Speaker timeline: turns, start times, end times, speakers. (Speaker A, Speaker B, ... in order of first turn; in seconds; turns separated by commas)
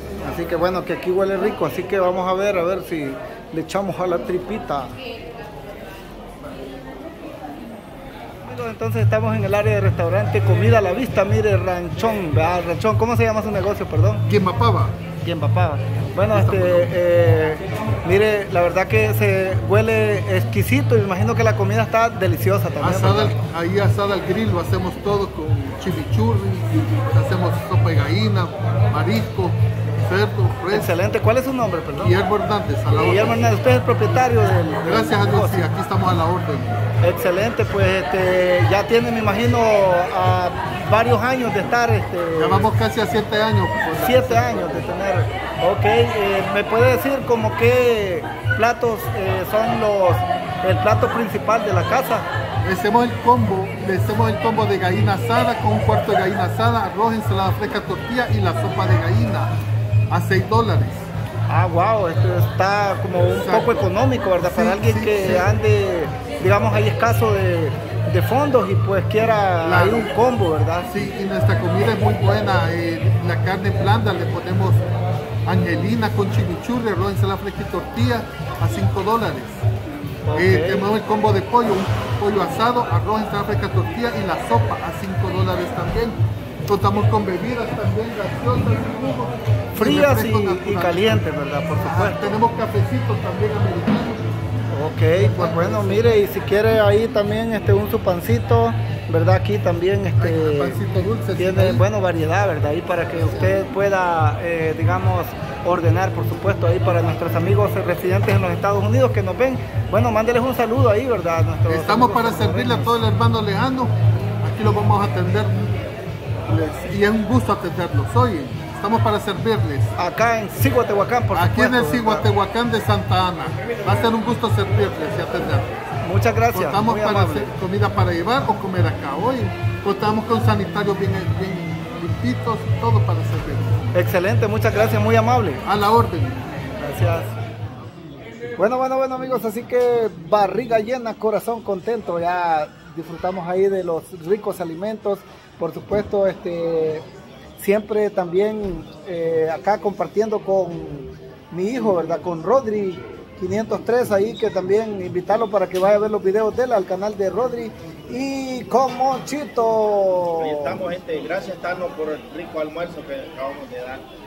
Speaker A: 0.2-5.0, Speaker A: 8.4-14.2, Speaker B: 14.3-15.0, Speaker A: 15.2-23.4, Speaker B: 16.3-16.9, Speaker B: 22.8-30.9, Speaker A: 30.7-32.2, Speaker B: 32.0-33.5, Speaker A: 32.9-35.7, Speaker B: 34.8-36.9, Speaker A: 37.0-42.7, Speaker B: 42.4-44.9, Speaker A: 44.0-52.3, Speaker B: 52.6-59.5, Speaker B: 60.1-61.1, Speaker A: 61.5-70.9, Speaker B: 63.4-65.5, Speaker B: 69.6-70.1, Speaker B: 70.9-74.9, Speaker B: 75.5-79.6, Speaker A: 80.2-80.9, Speaker B: 80.3-91.3, Speaker A: 89.8-92.4, Speaker B: 91.8-94.3, Speaker A: 94.7-100.8, Speaker B: 95.1-96.2, Speaker B: 100.2-101.8, Speaker A: 101.4-113.0, Speaker B: 111.7-115.8, Speaker B: 116.5-119.9, Speaker A: 120.0-122.3, Speaker B: 121.3-125.8, Speaker C: 123.6-124.1, Speaker A: 126.0-127.5, Speaker B: 126.5-133.9, Speaker A: 133.9-135.6, Speaker B: 135.7-136.4, Speaker A: 136.8-137.3, Speaker A: 138.6-147.0, Speaker A: 147.6-160.8, Speaker C: 160.3-164.1